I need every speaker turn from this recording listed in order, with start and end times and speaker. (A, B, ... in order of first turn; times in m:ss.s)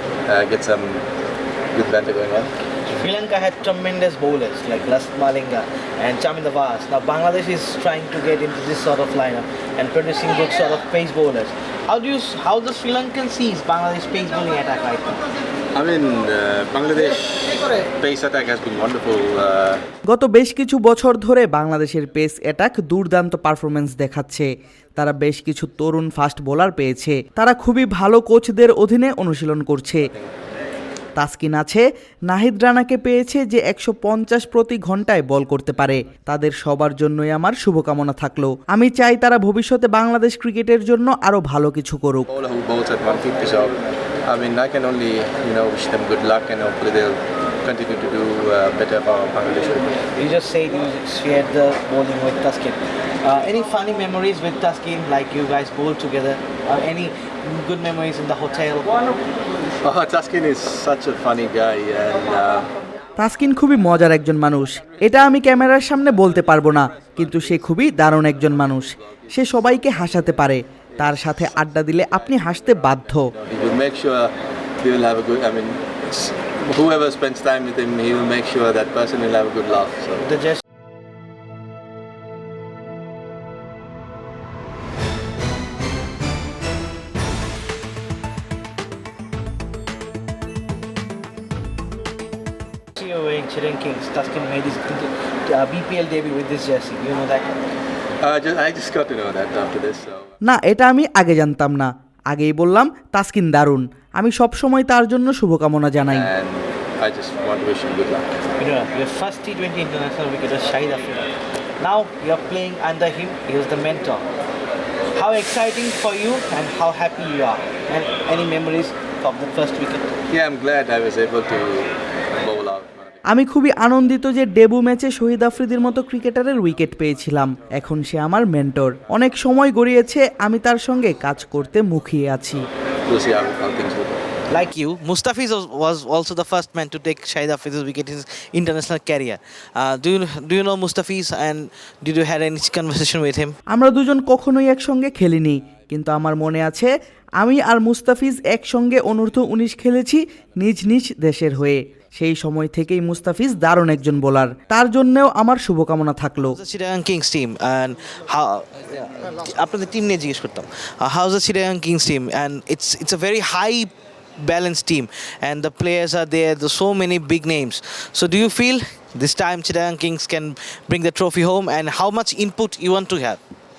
0:00.3-0:01.0 A
0:01.7-0:02.5 A
0:02.9-0:15.2 B
0:15.7-0:19.8 A
0:20.1-0:30.1 C
0:31.2-0:42.3 C
0:42.3-0:50.0 A
0:50.2-0:59.2 B
0:59.8-1:02.7 A
1:03.2-1:13.3 C
1:07.2-1:08.9 A
1:11.0-1:20.4 A
1:33.0-1:37.6 B
1:38.2-1:40.3 A
1:40.4-1:46.3 C
1:46.1-1:48.3 A
1:48.6-1:54.2 B
1:55.1-2:00.1 B
2:00.3-2:03.2 A
2:03.3-2:12.7 C
2:13.0-2:14.2 A
2:14.5-2:23.5 B
2:23.7-2:36.6 C
2:36.4-2:53.4 B